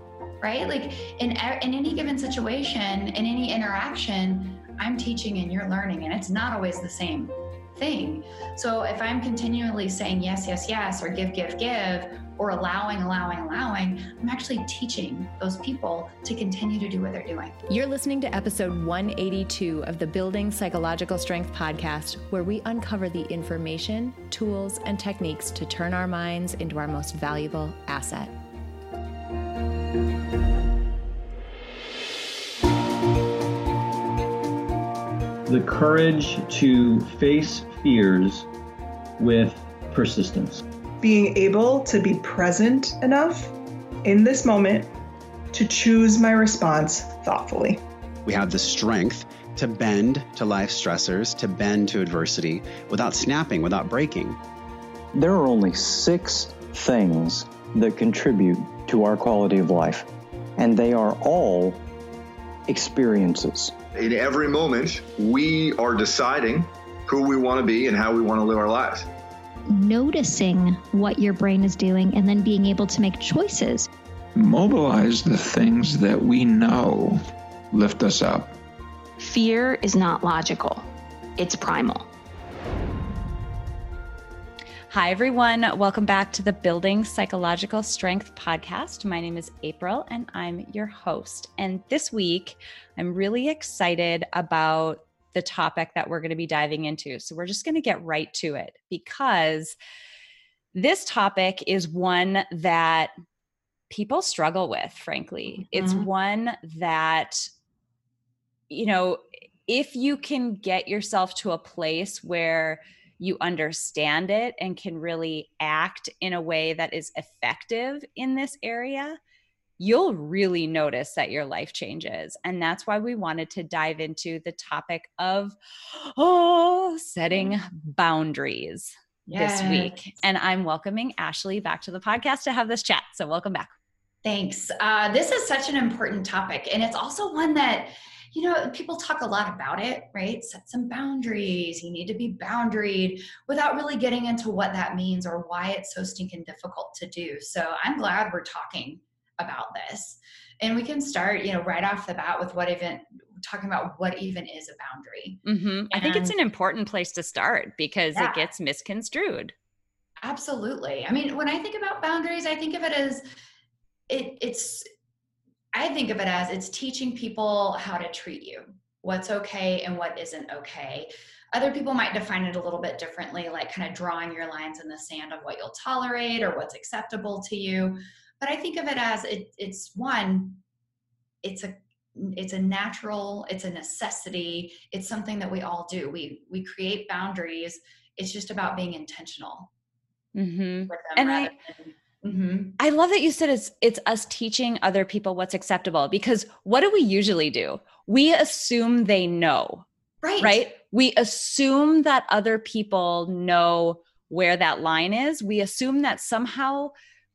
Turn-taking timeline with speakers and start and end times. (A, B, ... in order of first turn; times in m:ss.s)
0:00.4-0:17.6 A
0:17.7-0:28.3 B
0:35.5-0:38.5 C
0:39.2-0:40.6 C
0:41.0-0:44.9 D
0:45.5-0:47.8 D
0:48.2-0:54.4 E
0:55.2-1:01.8 F
1:02.7-1:03.7 F
1:04.0-1:09.0 G
1:09.7-1:13.9 H
1:14.4-1:18.5 I
1:19.2-1:22.1 J
1:24.9-1:39.8 B
1:40.7-1:43.1 B
1:43.9-1:47.5 B
1:45.7-1:46.1 A
1:48.7-1:59.2 B
1:59.8-2:13.7 B
2:09.3-2:10.0 A
2:14.2-2:36.4 A
2:35.4-2:39.5 B
2:38.2-2:38.4 A
2:40.2-2:43.2 A
2:44.1-2:44.9 A
2:45.7-3:00.6 A
3:01.4-3:09.7 A
3:10.4-3:11.6 B
3:10.9-3:12.8 A
3:12.8-3:19.8 B
3:20.2-3:20.6 A
3:20.4-3:26.9 B